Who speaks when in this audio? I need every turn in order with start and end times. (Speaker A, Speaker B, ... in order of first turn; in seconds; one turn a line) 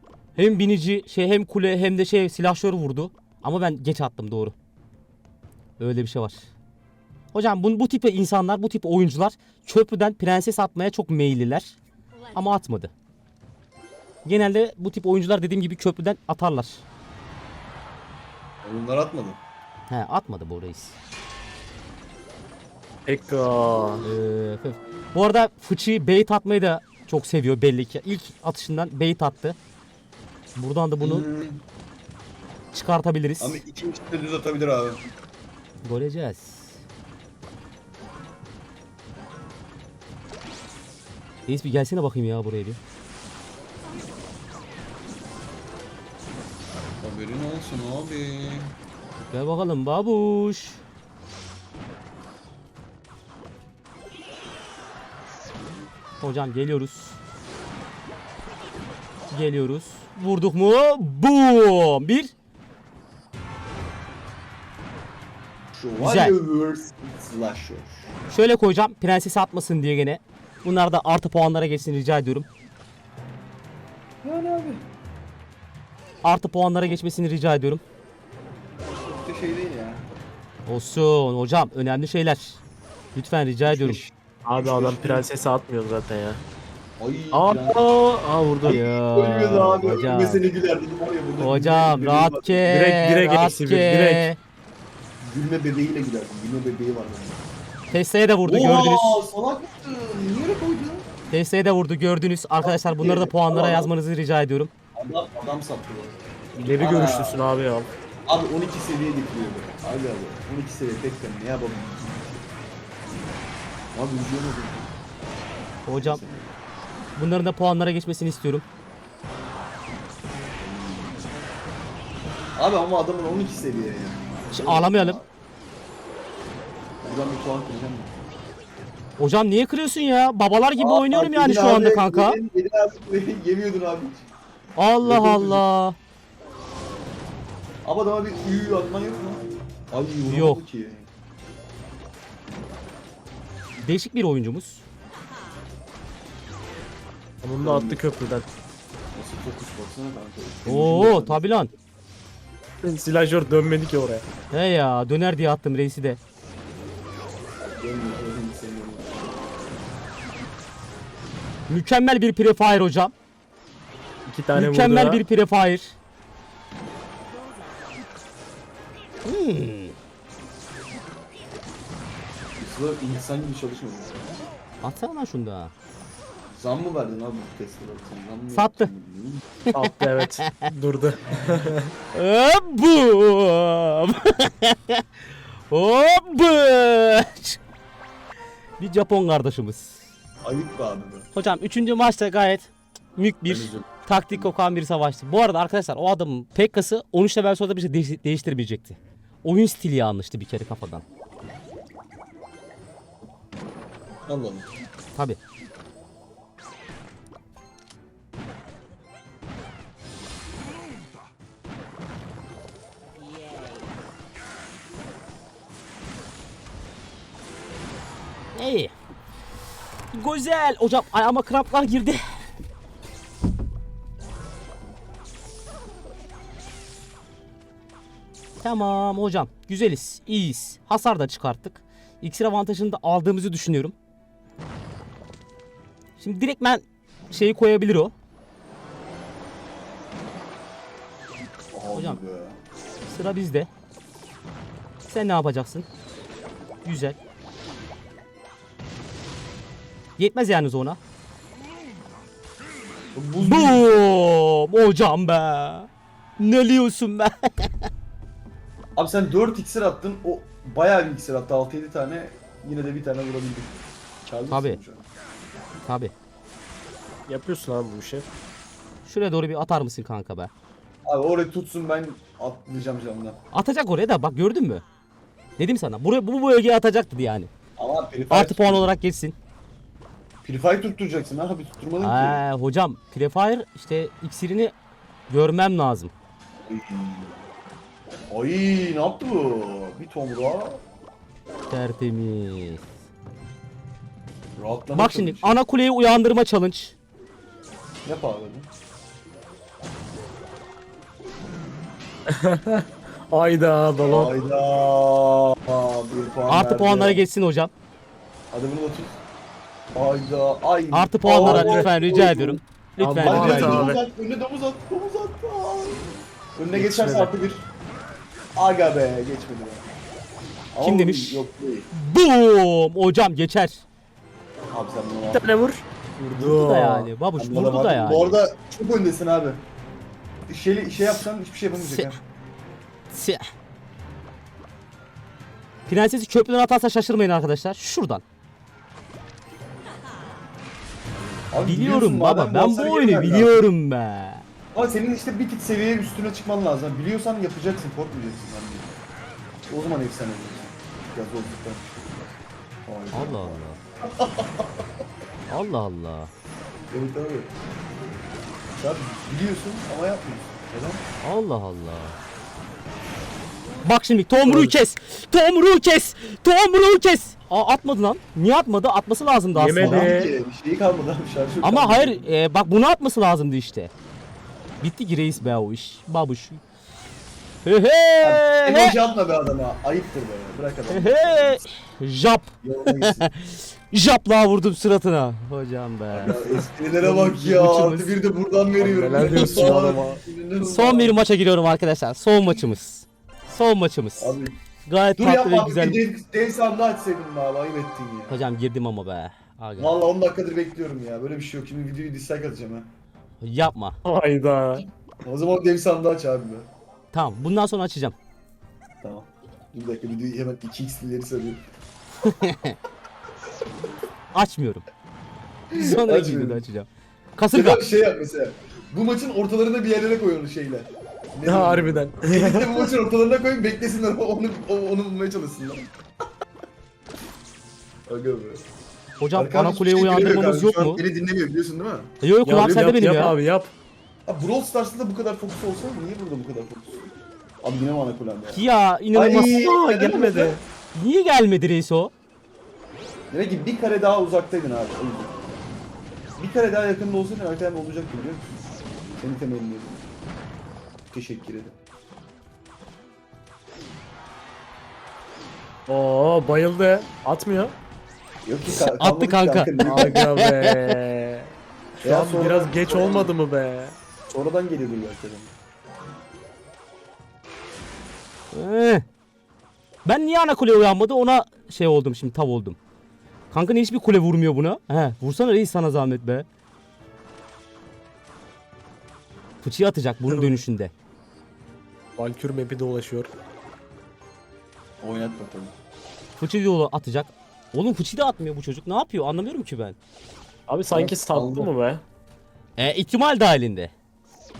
Speaker A: 0.3-4.5
Speaker A: 5.8-6.5
Speaker A: 7.3-11.8
Speaker A: 12.3-12.9
Speaker A: 14.2-16.8
Speaker B: 18.6-19.4
Speaker A: 19.9-20.9
Speaker C: 23.1-24.0
Speaker A: 24.0-29.6
Speaker A: 30.6-31.2
Speaker B: 31.0-31.6
Speaker A: 32.7-33.6
Speaker B: 33.4-35.0
Speaker A: 35.8-36.7
Speaker A: 41.5-42.8
Speaker B: 47.0-48.7
Speaker A: 49.3-50.8
Speaker A: 56.2-57.2
Speaker A: 59.3-62.3
Speaker B: 65.7-68.1
Speaker A: 66.0-66.3
Speaker A: 68.3-72.5
Speaker B: 74.2-74.8
Speaker A: 76.2-77.8
Speaker B: 78.9-80.1
Speaker A: 80.7-82.6
Speaker A: 83.1-84.0
Speaker B: 83.6-85.3
Speaker C: 84.4-86.4
Speaker B: 87.0-88.0
Speaker C: 87.3-88.8
Speaker B: 88.6-92.7
Speaker A: 88.7-90.4
Speaker A: 91.4-94.4
Speaker C: 92.7-94.3
Speaker B: 95.2-97.4
Speaker A: 97.9-99.2
Speaker B: 98.4-101.0
Speaker A: 101.3-104.7
Speaker B: 102.6-103.9
Speaker B: 105.0-106.2
Speaker C: 106.5-107.9
Speaker B: 106.7-107.4
Speaker B: 108.3-112.4
Speaker B: 113.9-116.5
Speaker A: 115.8-116.2
Speaker A: 117.2-118.6
Speaker B: 120.6-121.3
Speaker B: 122.5-125.3
Speaker A: 124.5-125.2
Speaker B: 127.0-128.1
Speaker A: 129.2-132.4
Speaker B: 130.8-134.3
Speaker A: 134.8-135.9
Speaker B: 135.0-135.6
Speaker B: 137.8-141.1
Speaker A: 140.3-140.6
Speaker A: 143.8-144.8
Speaker C: 147.4-148.5
Speaker B: 147.6-148.0
Speaker B: 149.1-151.4
Speaker A: 150.7-151.7
Speaker C: 152.8-154.2
Speaker A: 154.5-156.2
Speaker B: 157.8-159.4
Speaker A: 161.7-163.1
Speaker C: 164.3-165.2
Speaker A: 164.5-165.9
Speaker A: 169.2-169.9
Speaker B: 172.6-174.4
Speaker A: 174.8-175.7
Speaker B: 176.5-179.4
Speaker A: 178.5-178.9
Speaker C: 179.7-181.9
Speaker A: 180.4-180.7
Speaker A: 182.1-185.0
Speaker A: 185.7-187.6
Speaker A: 188.8-190.0
Speaker B: 190.4-191.3
Speaker A: 191.3-201.0
Speaker B: 193.4-194.5
Speaker B: 204.3-204.7
Speaker A: 218.5-218.9
Speaker A: 220.1-222.2
Speaker A: 228.6-233.9
Speaker A: 236.2-238.1
Speaker B: 241.7-242.6
Speaker A: 241.9-242.2
Speaker A: 243.1-243.7
Speaker A: 245.1-245.9
Speaker A: 246.8-247.2
Speaker A: 250.2-251.0
Speaker B: 253.1-253.9
Speaker A: 253.4-257.7
Speaker B: 258.9-265.0
Speaker A: 264.5-264.8
Speaker A: 265.9-266.1
Speaker C: 267.3-268.2
Speaker A: 269.1-270.5
Speaker B: 271.1-273.4
Speaker A: 273.5-274.8
Speaker A: 275.6-277.5
Speaker B: 277.8-278.9
Speaker A: 278.3-279.4
Speaker B: 280.4-282.4
Speaker A: 282.0-284.7
Speaker A: 285.3-286.1
Speaker B: 286.7-287.4
Speaker B: 288.3-290.8
Speaker A: 291.7-292.8
Speaker B: 294.6-295.6
Speaker A: 294.9-296.9
Speaker B: 298.0-298.7
Speaker C: 302.3-304.4
Speaker B: 304.1-307.2
Speaker A: 306.5-307.7
Speaker B: 308.5-309.1
Speaker B: 309.9-312.6
Speaker A: 310.9-313.9
Speaker C: 311.4-311.9
Speaker C: 313.0-314.0
Speaker B: 313.2-317.7
Speaker C: 316.7-317.3
Speaker B: 318.5-319.9
Speaker B: 320.7-321.9
Speaker A: 320.8-323.8
Speaker B: 324.7-325.5
Speaker C: 325.3-327.1
Speaker A: 326.3-328.4
Speaker B: 327.4-329.6
Speaker B: 330.5-332.2
Speaker A: 331.8-332.1
Speaker A: 333.1-333.4
Speaker A: 335.9-338.2
Speaker B: 341.5-343.6
Speaker A: 341.6-344.4
Speaker B: 344.7-348.9
Speaker B: 349.7-351.9
Speaker B: 352.9-354.8
Speaker A: 353.1-353.8
Speaker A: 355.5-356.3
Speaker B: 356.9-357.5
Speaker B: 358.8-361.0
Speaker A: 361.2-362.1
Speaker A: 363.8-370.1
Speaker B: 364.4-364.7
Speaker C: 369.5-370.3
Speaker B: 369.7-372.3
Speaker A: 371.6-373.9
Speaker A: 374.8-376.6
Speaker A: 377.6-379.0
Speaker B: 378.2-381.6
Speaker A: 380.9-386.4
Speaker B: 382.6-383.3
Speaker B: 386.1-391.1
Speaker A: 387.0-388.1
Speaker C: 388.8-390.2
Speaker A: 389.2-389.8
Speaker A: 390.6-396.0
Speaker B: 394.2-394.6
Speaker B: 395.1-398.4
Speaker A: 398.3-399.9
Speaker B: 399.8-402.9
Speaker A: 403.4-404.0
Speaker C: 404.0-404.9
Speaker B: 405.2-406.7
Speaker A: 407.1-408.1
Speaker B: 409.0-411.6
Speaker A: 412.2-412.8
Speaker A: 414.3-414.8
Speaker B: 415.7-416.6
Speaker A: 415.7-417.8
Speaker B: 417.5-425.9
Speaker C: 421.4-422.9
Speaker B: 428.1-428.6
Speaker A: 429.2-431.0
Speaker B: 429.3-433.3
Speaker A: 432.2-433.3
Speaker C: 432.4-433.7
Speaker B: 434.2-438.6
Speaker A: 438.5-442.1
Speaker B: 439.1-440.6
Speaker B: 443.3-445.4
Speaker B: 446.4-448.5
Speaker B: 449.2-450.0
Speaker B: 451.1-451.8
Speaker C: 455.9-457.7
Speaker B: 458.4-460.3
Speaker A: 458.7-460.9
Speaker C: 459.8-463.9
Speaker B: 462.0-463.3
Speaker B: 464.3-465.5
Speaker A: 468.5-469.0
Speaker A: 470.0-472.8
Speaker A: 473.5-476.4
Speaker A: 479.6-480.9
Speaker C: 480.3-480.6
Speaker C: 482.2-483.3
Speaker B: 485.0-485.7
Speaker A: 486.4-490.0
Speaker C: 490.7-492.0
Speaker B: 490.9-491.7
Speaker A: 492.8-493.9